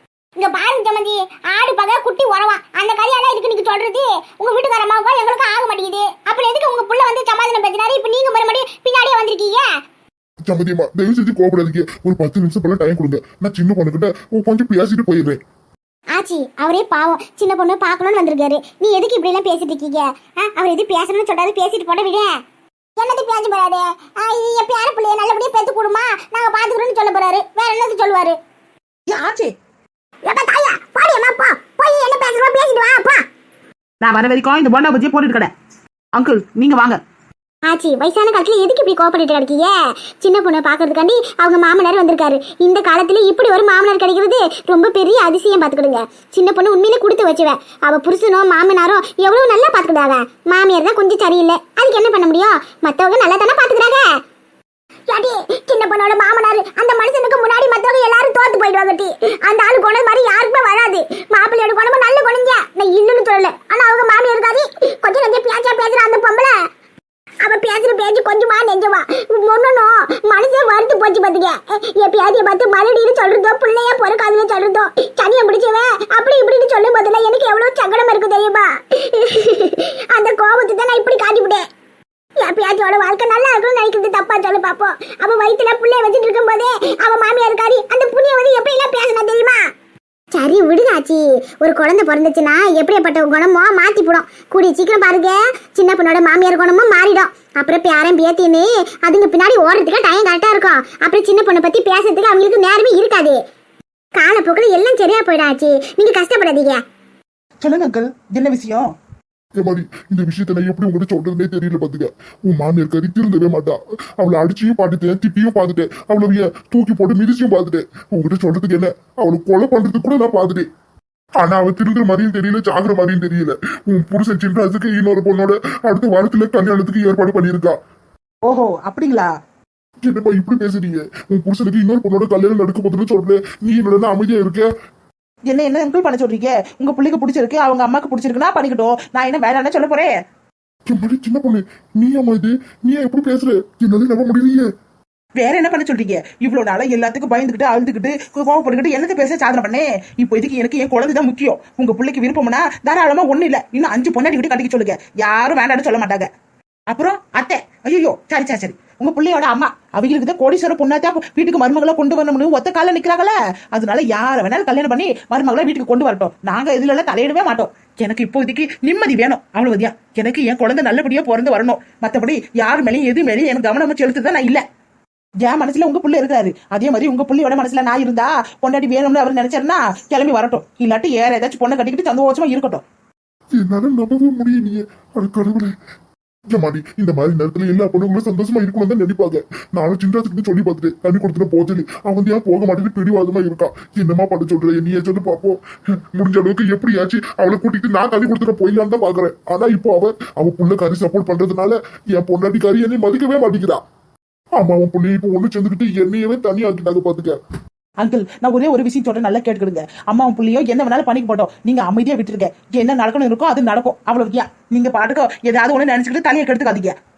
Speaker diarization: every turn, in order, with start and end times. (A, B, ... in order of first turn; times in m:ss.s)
0:00.4-0:09.7 A
0:10.4-0:15.4 B
0:16.1-0:22.3 A
0:23.0-0:28.4 A
0:29.1-0:29.5 C
0:30.2-0:33.2 A
0:34.0-0:35.5 C
0:36.1-0:37.0 C
0:37.7-0:54.0 A
0:55.1-1:06.5 A
1:07.4-1:21.6 A
1:22.4-1:29.6 A
1:30.3-1:43.4 A
1:44.1-1:46.8 A
1:47.6-1:48.9 C
1:49.6-2:00.6 B
2:01.4-2:07.8 B
2:08.4-2:09.3 C
2:10.0-2:14.7 B
2:15.5-2:20.1 C
2:20.9-2:24.7 B
2:25.4-2:36.3 C
2:36.9-2:54.6 C
2:55.4-3:02.8 C
3:03.5-3:05.7 B
3:06.5-3:15.6 B
3:16.1-3:23.8 B
3:24.6-3:27.4 B
3:28.0-3:36.9 C